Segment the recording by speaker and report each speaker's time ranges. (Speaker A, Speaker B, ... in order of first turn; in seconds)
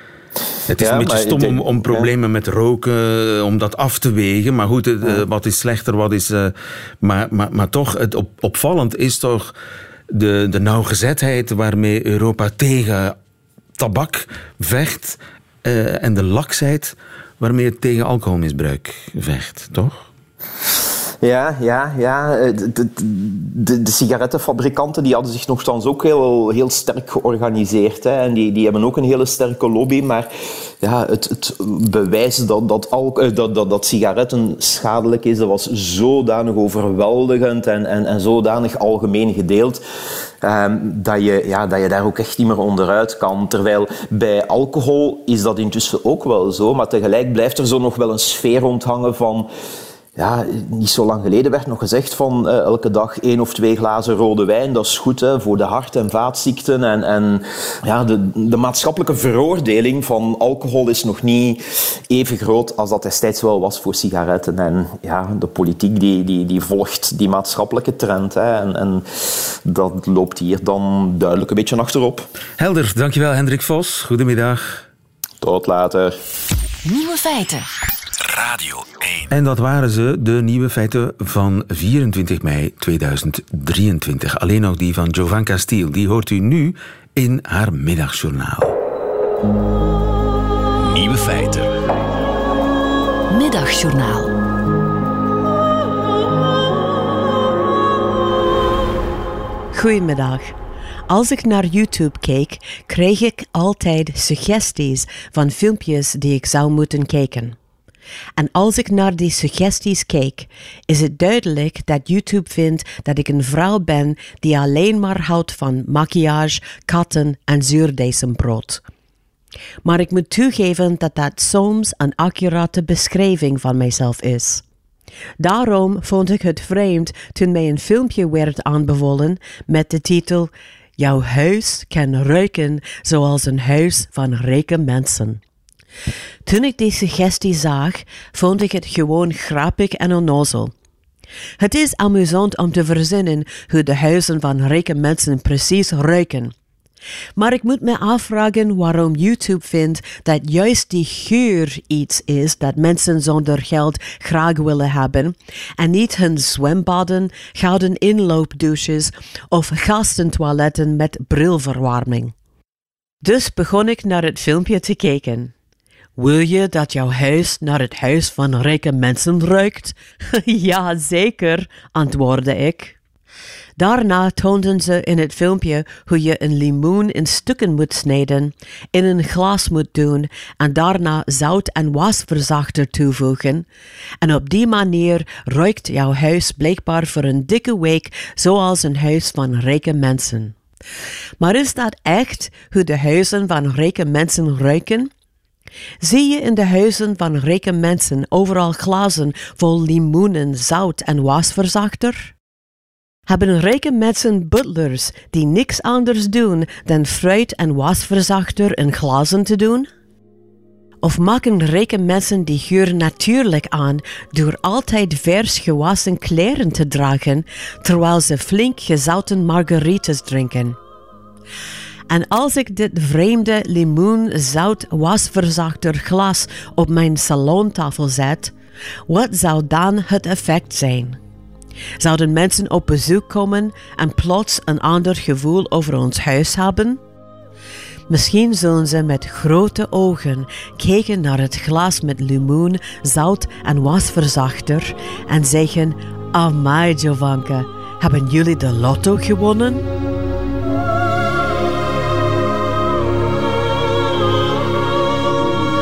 Speaker A: 0.7-9.6, 10.1-13.2, 13.8-20.1, 72.6-74.8, 79.3-88.8
Speaker B: 0.8-2.1, 21.2-30.3, 30.8-39.8, 40.4-49.5, 50.2-72.3, 75.4-76.2
Speaker C: 76.8-77.7, 93.3-94.3
Speaker D: 78.2-79.2, 90.8-91.7
Speaker E: 99.7-100.5, 101.1-107.6, 108.4-118.8, 119.8-124.6, 125.4-135.4, 136.5-140.7, 141.6-146.5, 147.4-162.3, 163.2-165.5, 166.2-172.9, 173.8-183.7, 184.2-190.6, 191.4-195.1, 196.0-202.3, 203.3-209.9, 211.0-220.8, 222.1-228.5, 229.1-231.2, 232.0-237.0, 238.1-249.8